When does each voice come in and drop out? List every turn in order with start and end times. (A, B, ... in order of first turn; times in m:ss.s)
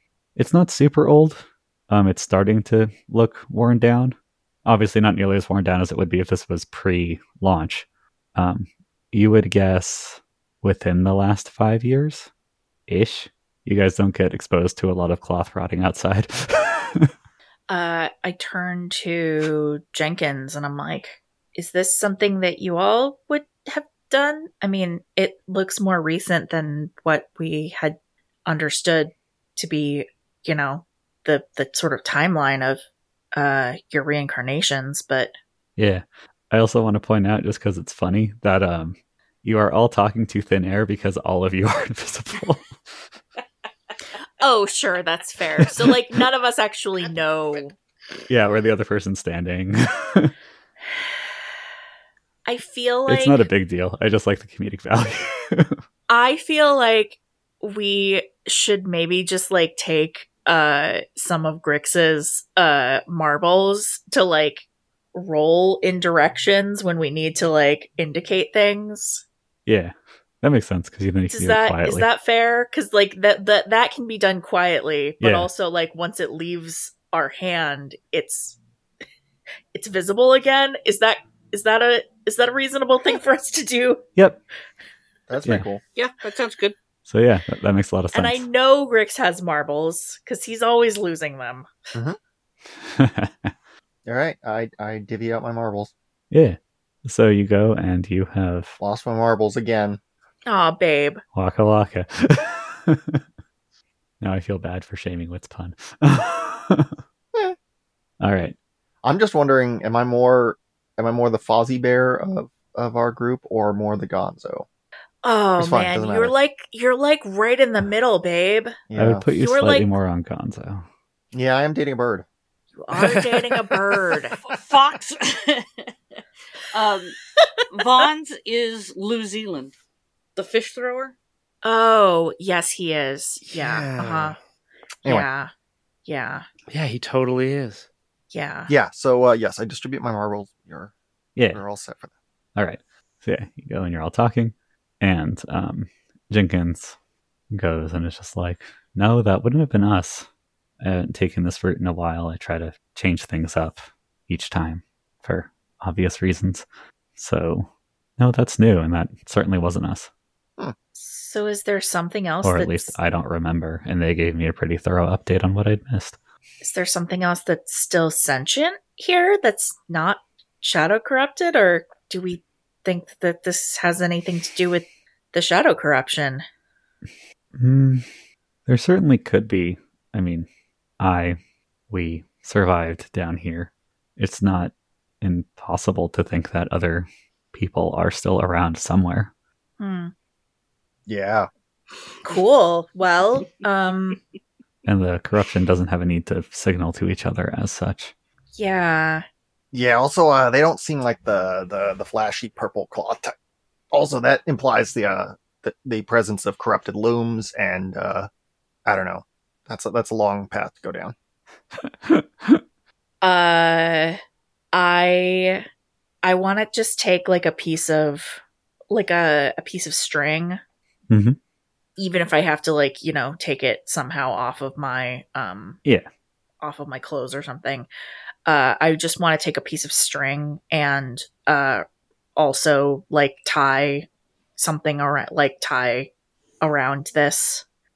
0:00.4-0:04.1 A
0:04.6-0:12.3 A
0:12.9-0:17.1 A
0:17.7-0:32.8 B
0:33.3-0:35.3 B
0:35.8-0:43.0 A
0:44.4-0:47.7 B
0:48.3-0:50.3 A
0:52.4-0:53.4 B
0:53.1-0:55.8 A
0:56.1-1:09.2 B
1:09.7-1:12.1 A
1:11.3-1:18.6 B
1:15.2-1:15.5 A
1:19.7-1:24.0 B
1:25.3-1:25.8 C
1:26.0-1:26.7 D
1:27.0-1:28.4 A
1:28.1-1:31.7 B
1:32.8-1:33.5 A
1:34.0-1:35.9 C
1:36.3-1:38.8 A
1:38.8-1:40.0 C
1:40.4-1:41.2 B
1:41.3-1:43.2 A
1:44.2-1:47.0 A
1:48.2-1:48.5 A
1:49.0-1:54.6 C
1:55.2-1:58.8 B
1:55.6-1:56.3 C
1:58.9-1:59.2 C
1:58.9-2:00.8 A
1:59.3-1:59.9 B
2:01.3-2:02.2 C
2:02.8-2:04.3 B
2:03.0-2:04.0 E
2:04.4-2:05.9 D
2:06.7-2:07.2 D
2:07.7-2:09.7 D
2:10.4-2:11.1 D
2:11.6-2:14.4 B
2:13.5-2:14.4 E
2:15.0-2:15.5 B
2:16.0-2:16.4 B
2:16.7-2:17.9 E
2:18.3-2:18.7 B
2:18.7-2:20.9 C
2:21.4-2:21.6 A
2:21.5-2:22.1 C
2:22.6-2:27.0 A
2:27.5-2:30.3 A
2:30.8-2:40.1 A
2:40.9-2:43.0 B
2:42.4-2:46.2 A
2:46.6-2:56.4 B
2:57.6-2:58.1 A
2:58.7-3:00.5 A
3:01.0-3:01.4 A
3:01.9-3:09.3 A
3:09.8-3:10.1 B
3:11.1-3:11.5 C
3:12.2-3:14.2 B
3:14.8-3:18.1 A
3:18.6-3:19.2 B
3:19.7-3:23.3 C
3:23.9-3:28.3 C
3:28.8-3:31.1 C
3:32.0-3:32.6 A
3:33.2-3:34.2 B
3:34.7-3:35.6 B
3:36.2-3:40.6 B
3:41.1-3:41.4 A
3:42.0-3:45.8 B
3:46.6-3:47.9 B
3:48.4-3:51.8 B
3:52.4-3:57.6 B